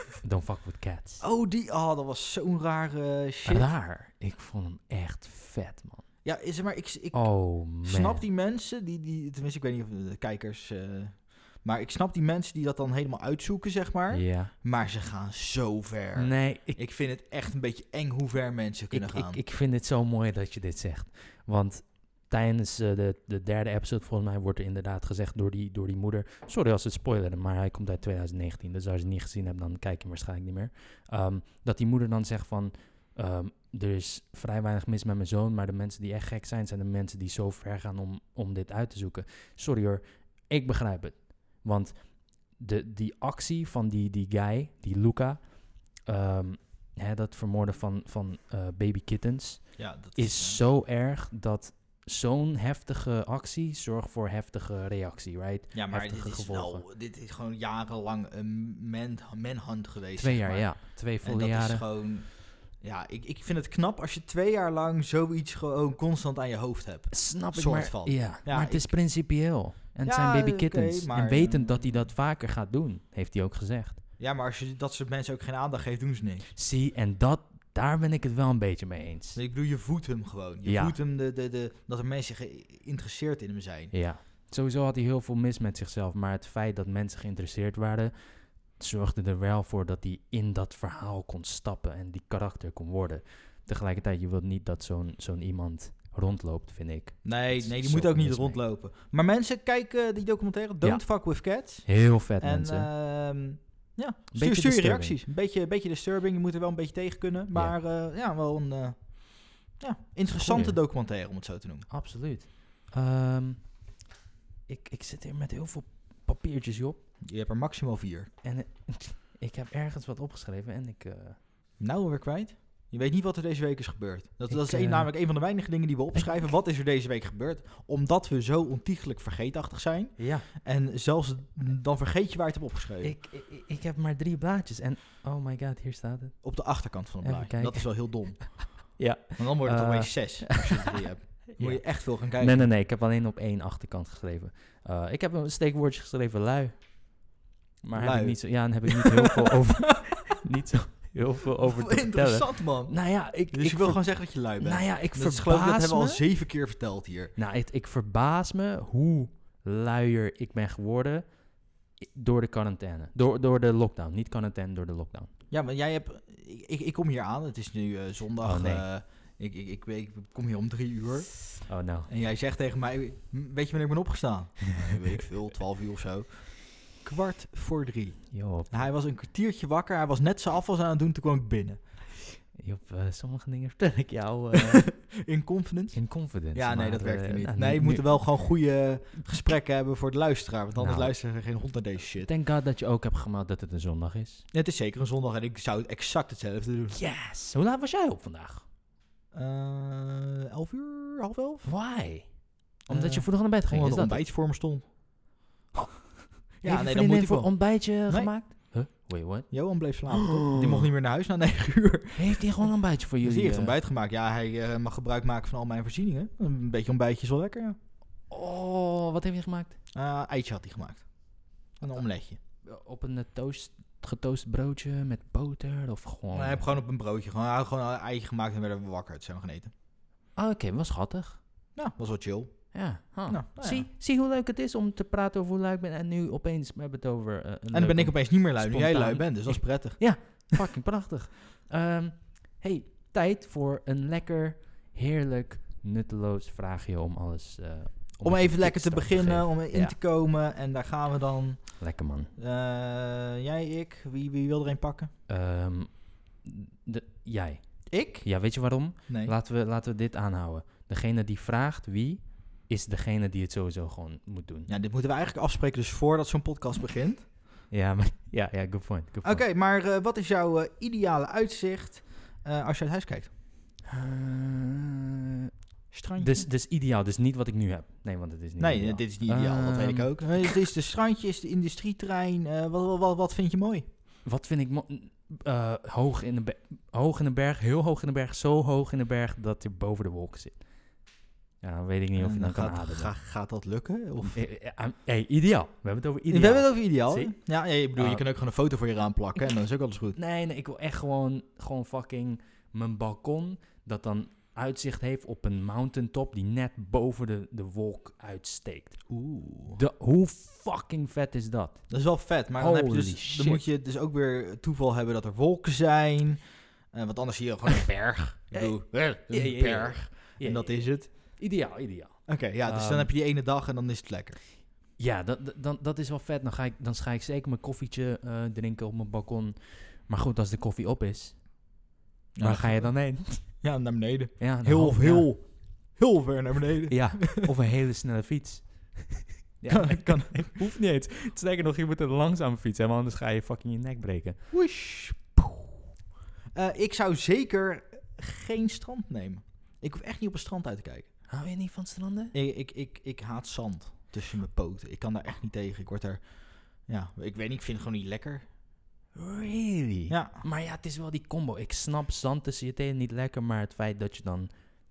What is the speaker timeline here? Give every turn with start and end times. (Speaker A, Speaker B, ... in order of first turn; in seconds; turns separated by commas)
Speaker A: 0.2-1.2, Speaker B: 1.2-3.7, Speaker A: 3.5-6.1, Speaker B: 6.2-19.4, Speaker A: 7.1-8.2, Speaker A: 14.1-14.5, Speaker A: 16.2-16.8, Speaker A: 18.9-56.9, Speaker B: 49.8-50.6, Speaker B: 55.7-69.0, Speaker A: 60.2-61.9, Speaker A: 67.1-74.0, Speaker B: 70.0-72.1, Speaker B: 74.2-76.5, Speaker A: 76.6-79.4, Speaker B: 79.3-84.0, Speaker A: 80.6-80.9, Speaker A: 83.9-98.6, Speaker B: 97.2-111.9, Speaker A: 100.8-102.9, Speaker A: 104.3-105.2, Speaker A: 110.3-110.8, Speaker A: 111.9-113.9, Speaker A: 114.7-117.1, Speaker B: 117.2-118.3, Speaker A: 118.4-121.4, Speaker B: 121.8-133.2, Speaker A: 124.5-125.1, Speaker A: 126.1-126.5, Speaker A: 130.2-130.5, Speaker A: 133.0-140.9, Speaker B: 136.4-142.7, Speaker A: 141.5-147.2, Speaker A: 147.8-156.2, Speaker B: 147.9-149.6, Speaker B: 151.6-157.3, Speaker A: 157.4-165.3, Speaker B: 165.5-182.0, Speaker A: 168.4-168.9, Speaker A: 171.7-172.1, Speaker A: 178.3-178.9, Speaker A: 182.5-185.0, Speaker B: 184.9-192.3, Speaker A: 185.9-188.5, Speaker A: 190.8-191.1, Speaker A: 192.2-194.4, Speaker B: 194.5-197.0, Speaker A: 196.9-198.7, Speaker B: 199.3-201.7, Speaker A: 201.6-204.2, Speaker B: 202.9-204.8, Speaker A: 206.4-209.5, Speaker B: 206.6-208.3, Speaker B: 209.5-217.8, Speaker A: 210.1-210.9, Speaker A: 212.2-213.8, Speaker A: 218.3-219.8, Speaker B: 219.9-222.4, Speaker A: 222.6-226.7, Speaker B: 226.3-229.7, Speaker A: 230.4-231.4, Speaker B: 231.8-233.9, Speaker A: 232.7-249.9, Speaker B: 237.7-240.4, Speaker B: 248.2-255.1, Speaker A: 251.8-252.3, Speaker A: 255.3-264.7, Speaker B: 257.9-259.4, Speaker B: 264.7-267.3, Speaker A: 267.7-269.4, Speaker B: 269.2-273.3, Speaker A: 273.9-275.1, Speaker B: 275.9-276.5, Speaker A: 276.2-280.5, Speaker B: 278.6-283.9, Speaker A: 284.2-290.9, Speaker A: 291.6-293.1, Speaker B: 292.1-294.4, Speaker A: 294.2-297.4, Speaker B: 296.3-300.2, Speaker A: 298.0-298.2, Speaker A: 300.1-309.1, Speaker B: 309.1-309.8, Speaker A: 309.8-311.9, Speaker B: 311.9-321.4, Speaker A: 312.6-313.6, Speaker A: 318.5-323.1, Speaker B: 322.3-324.4, Speaker A: 325.0-331.6, Speaker B: 332.4-337.4, Speaker A: 332.4-333.6, Speaker A: 334.4-335.3, Speaker A: 336.9-344.4, Speaker B: 339.7-340.6, Speaker B: 344.5-345.6, Speaker B: 346.5-351.1, Speaker A: 351.3-352.3, Speaker B: 352.3-358.4, Speaker A: 359.1-364.5, Speaker B: 360.1-360.4